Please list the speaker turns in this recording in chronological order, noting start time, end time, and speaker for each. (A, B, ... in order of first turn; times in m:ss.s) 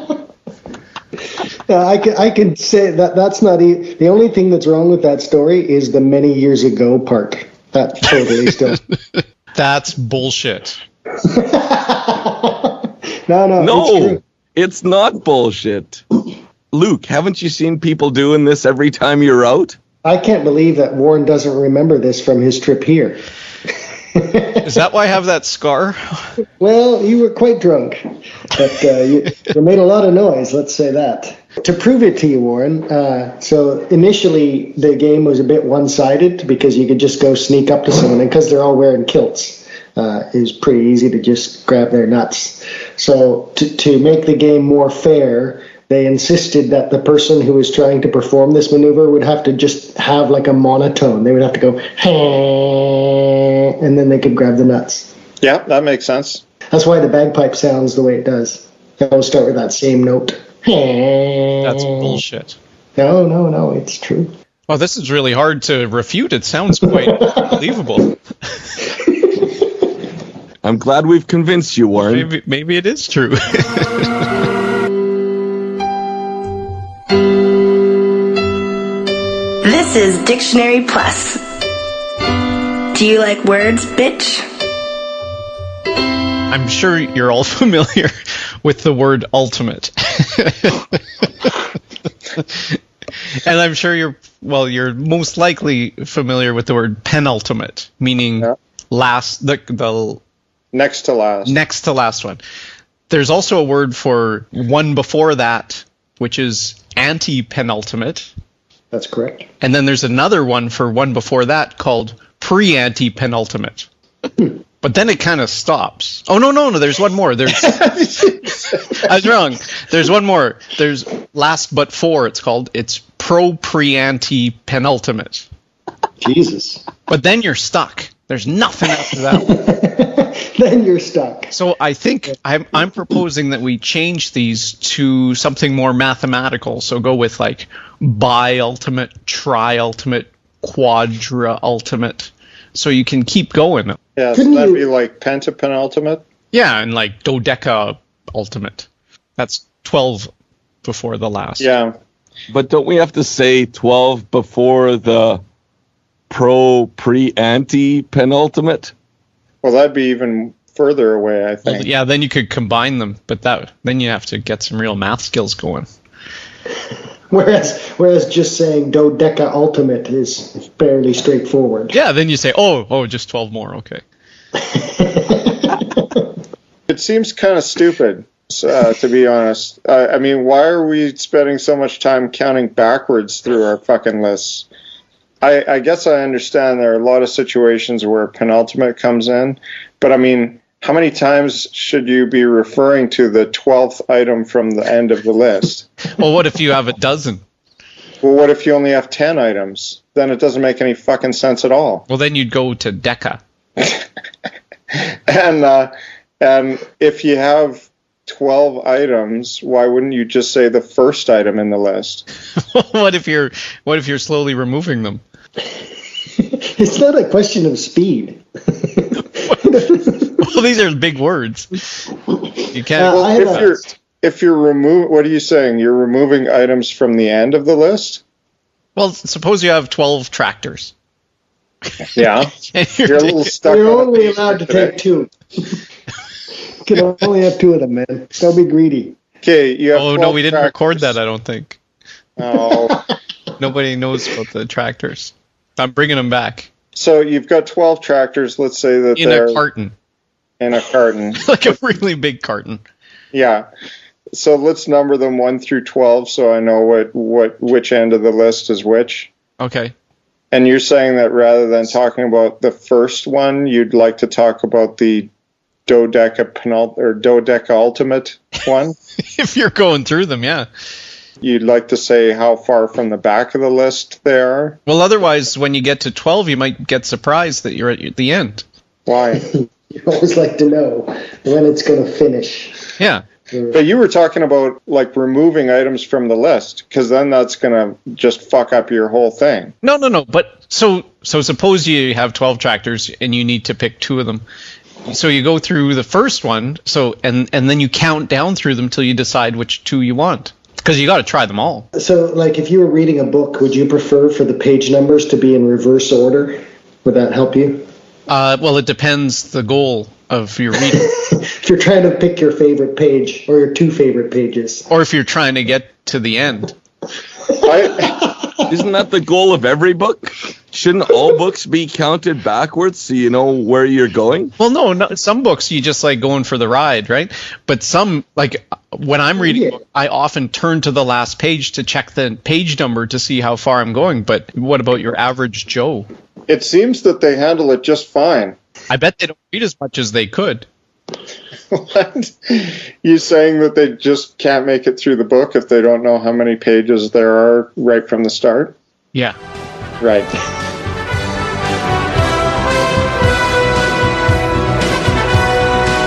0:01.7-0:08.8 A
0:08.9-0:10.8 B
0:11.3-0:14.2 A
0:13.6-0:16.0 C
0:16.7-0:19.8 C
0:20.0-0:23.2 A
0:24.2-0:24.7 A
0:24.6-0:26.3 B
0:26.6-0:28.0 A
0:28.5-0:53.1 A
0:53.8-0:55.1 A
0:55.4-0:56.4 D
0:56.7-1:02.0 A
1:01.6-1:02.6 B
1:03.0-1:04.3 A
1:04.7-1:08.1 B
1:07.1-1:07.5 A
1:09.1-1:09.6 A
1:10.6-1:12.3 C
1:12.0-1:14.2 B
1:19.6-1:21.4 E
1:22.9-1:24.4 E
1:26.5-1:31.6 B
1:32.4-1:32.8 B
1:33.4-1:40.2 B
1:40.7-1:41.6 D
1:41.4-1:42.4 B
1:43.1-1:48.3 B
1:48.9-1:49.5 A
1:49.6-1:53.9 B
1:54.8-2:05.5 B
1:57.8-1:58.6 D
2:06.2-2:06.9 A
2:07.1-2:09.6 B
2:09.4-2:11.5 A
2:11.5-2:24.0 B
2:24.2-2:26.2 D
2:24.3-2:24.9 A
2:26.5-2:30.3 B
2:30.8-2:31.7 B
2:31.6-2:32.0 D
2:32.5-2:35.4 C
2:36.3-2:38.9 C
2:39.6-2:41.9 D
2:41.6-2:45.9 B
2:47.3-2:52.0 A
2:51.9-2:54.0 B
2:54.7-2:56.2 A
2:56.9-3:04.7 D
3:05.4-3:15.9 D
3:16.2-3:17.4 B
3:18.2-3:22.0 D
3:22.1-3:23.4 B
3:25.3-3:32.2 D
3:32.6-3:35.2 B
3:36.4-3:40.4 A
3:40.4-3:41.8 B
3:42.7-3:43.7 B
3:43.0-3:43.8 A
3:43.1-3:48.2 D
3:49.0-3:50.9 B
3:52.2-3:52.5 D
3:52.6-3:53.6 B
3:53.0-3:55.0 D
3:53.6-3:55.3 A
3:56.8-3:59.2 A
3:59.4-4:01.2 D
3:59.9-4:01.8 B
4:02.4-4:03.0 D
4:03.6-4:06.7 B
4:07.0-4:09.6 D
4:09.2-4:09.9 B
4:10.6-4:11.4 D
4:11.4-4:12.8 B
4:13.3-4:13.7 D
4:14.3-4:19.3 D
4:19.6-4:19.9 B
4:20.5-4:25.3 D
4:25.9-4:29.0 D
4:29.3-4:30.7 B
4:31.4-4:34.8 D
4:34.9-4:38.6 B
4:39.1-4:39.4 D
4:39.9-4:42.8 A
4:43.0-4:43.2 B
4:43.5-4:43.8 A
4:43.7-4:49.7 D
4:49.8-4:54.4 B
4:55.1-5:01.9 B
5:01.9-5:07.8 A
5:08.3-5:11.1 B
5:10.9-5:14.9 A
5:14.9-5:16.8 B
5:17.6-5:18.2 D
5:18.2-5:18.5 A
5:18.7-5:24.5 C
5:24.6-5:36.1 B
5:29.4-5:29.8 A
5:36.5-5:38.6 D
5:38.9-5:40.7 B
5:41.7-5:48.8 D
5:50.0-5:50.3 D